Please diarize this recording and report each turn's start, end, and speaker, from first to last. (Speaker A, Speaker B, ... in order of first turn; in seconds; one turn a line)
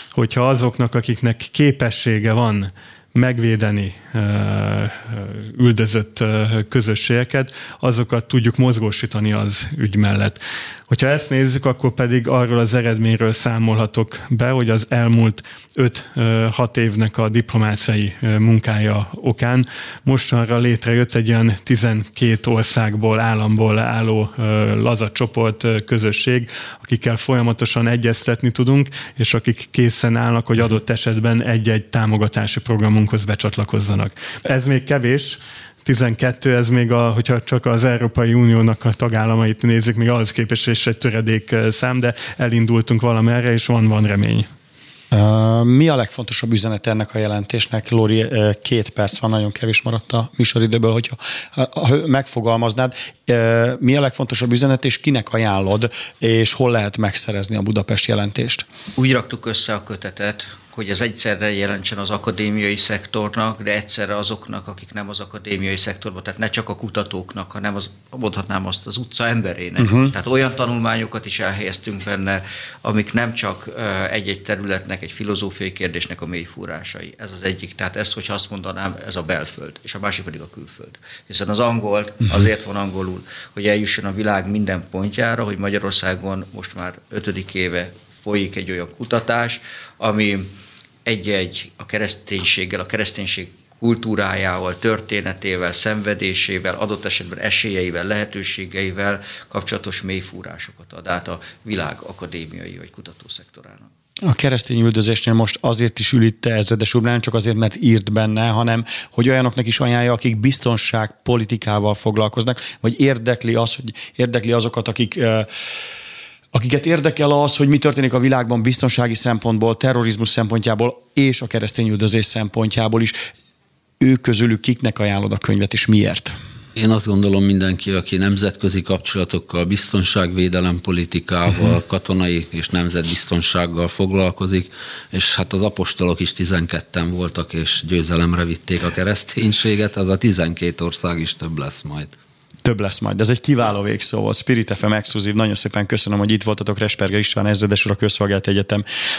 Speaker A: 0.1-44.5
Speaker B: 45.1-58.6
Speaker C: 59.0-90.5
Speaker B: 69.8-70.1
Speaker C: 91.0-103.8
Speaker B: 104.2-115.5
Speaker B: 116.5-123.2
Speaker B: 124.0-126.3
Speaker D: 126.8-142.1
Speaker B: 142.6-148.8